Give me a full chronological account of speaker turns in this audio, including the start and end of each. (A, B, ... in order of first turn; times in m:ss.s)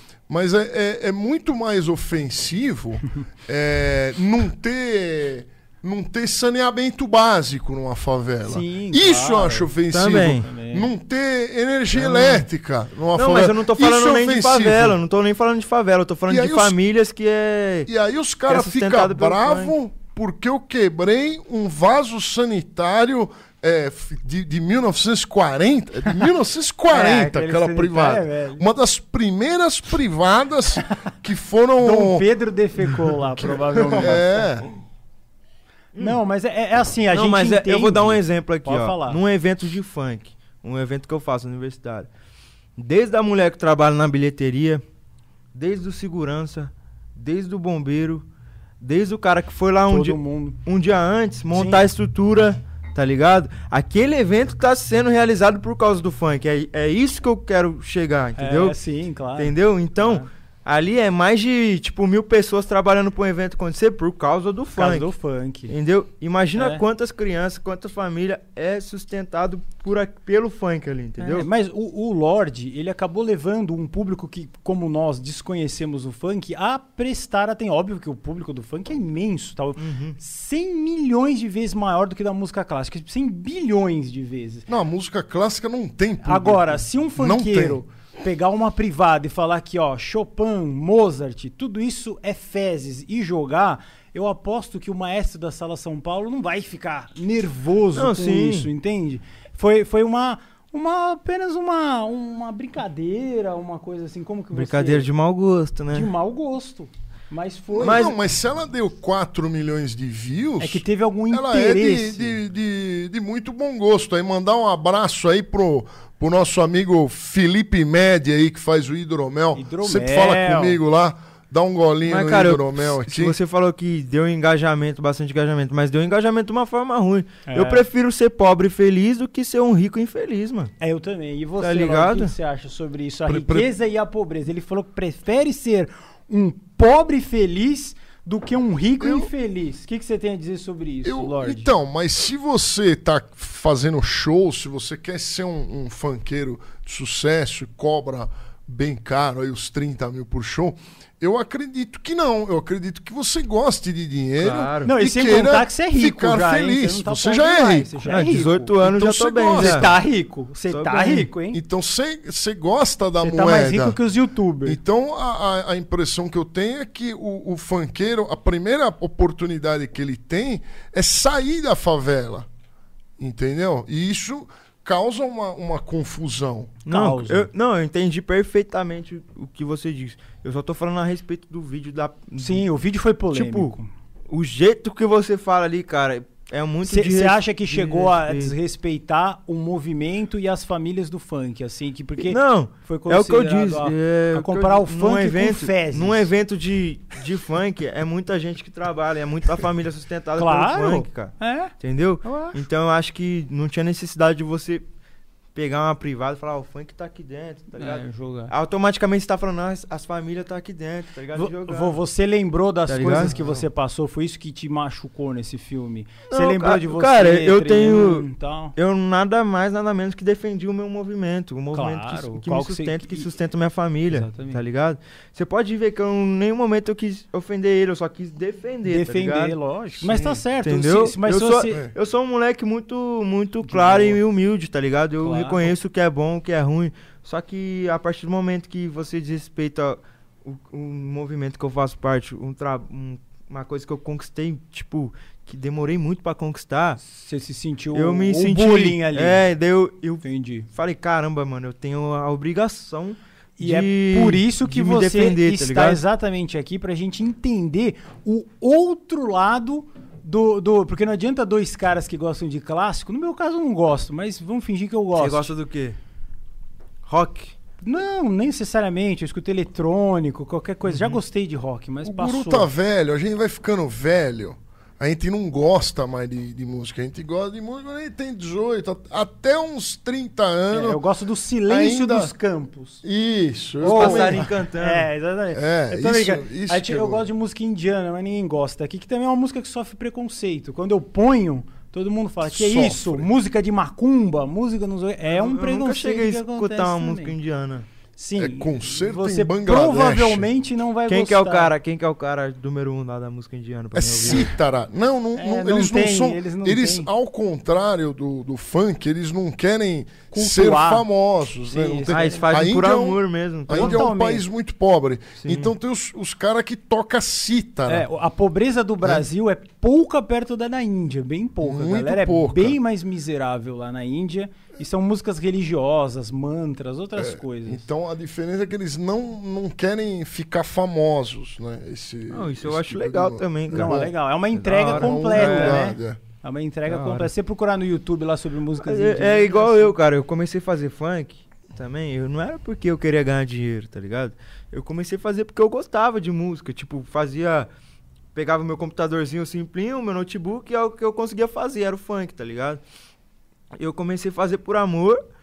0:00.3-0:15.0 A
0:08.4-0:09.7 B
0:09.9-0:10.5 C
0:10.4-0:10.9 B
0:11.9-0:12.5 C
0:13.1-0:17.9 C
0:16.3-0:16.8 A
0:17.9-0:32.3 A
0:18.5-0:19.8 C
0:26.9-0:28.6 B
0:31.8-0:34.5 B
0:33.4-0:34.7 A
0:35.9-0:36.2 C
0:36.0-0:39.2 B
0:37.1-0:42.1 C
0:42.8-0:44.8 C
0:45.6-0:48.2 C
0:48.8-0:58.8 C
0:49.9-0:50.6 B
0:51.5-0:51.9 B
0:58.4-1:00.3 B
0:59.4-1:05.1 C
1:04.8-1:05.7 B
1:05.7-1:11.5 C
1:06.6-1:06.8 B
1:11.2-1:24.7 B
1:19.8-1:20.2 C
1:24.7-1:27.8 A
1:26.2-1:45.1 B
1:38.0-1:38.7 C
1:44.5-1:46.1 C
1:45.9-1:48.2 B
1:47.7-2:03.4 A
1:50.6-1:52.4 B
1:59.6-2:00.8 B
2:02.0-2:10.7 C
2:07.5-2:07.9 B
2:10.8-2:21.7 B
2:11.6-2:12.3 C
2:13.3-2:13.7 A
2:19.0-2:19.3 A
2:21.0-2:38.3 A
2:34.4-2:34.9 C
2:34.8-2:38.7 B
2:38.1-2:39.9 C
2:38.8-2:39.9 A
2:39.5-2:41.6 B
2:40.7-2:41.3 C
2:41.5-2:44.0 A
2:43.2-2:44.8 B
2:44.6-2:52.5 A
2:53.2-2:56.8 A
2:56.9-2:57.5 B
2:56.9-3:02.6 C
3:02.4-3:03.9 B
3:03.3-3:03.8 C
3:04.3-3:08.6 C
3:06.8-3:16.3 B
3:12.2-3:24.8 C
3:20.4-3:21.7 B
3:22.2-3:22.6 B
3:25.6-3:32.0 C
3:27.8-3:28.5 B
3:31.4-3:38.7 B
3:32.9-3:33.4 C
3:36.3-3:49.6 C
3:41.7-3:43.3 B
3:44.1-3:44.6 B
3:48.9-3:51.8 B
3:50.0-3:50.4 A
3:50.6-4:07.0 C
3:53.6-3:54.2 B
3:55.2-3:55.7 B
4:07.0-4:09.4 B
4:07.9-4:16.0 C
4:10.2-4:10.7 B
4:13.6-4:25.5 B
4:25.2-4:26.0 C
4:27.1-4:27.5 C
4:27.8-4:32.7 B
4:30.9-4:31.2 C
4:32.0-4:41.0 A
4:40.7-4:43.0 B
4:41.7-4:42.3 A
4:43.0-4:44.4 A
4:43.8-4:57.3 B
4:43.8-4:45.1 C
4:45.5-4:47.3 A
4:52.5-4:53.3 A
4:55.3-4:57.9 C
4:58.2-5:01.7 B
4:58.4-5:00.5 A
5:01.1-5:04.5 C
5:04.0-5:18.1 A
5:05.4-5:07.1 B
5:10.3-5:11.0 B
5:11.7-5:12.5 B
5:12.1-5:14.1 C
5:13.7-5:14.4 B
5:15.4-5:15.7 C
5:17.9-5:27.8 B
5:21.6-5:22.8 A
5:27.2-5:34.1 A
5:32.3-5:35.9 C
5:33.7-5:39.9 B
5:34.9-5:36.2 A
5:36.9-5:37.3 C
5:38.8-5:47.7 C
5:48.4-5:52.8 C
5:53.8-5:55.2 C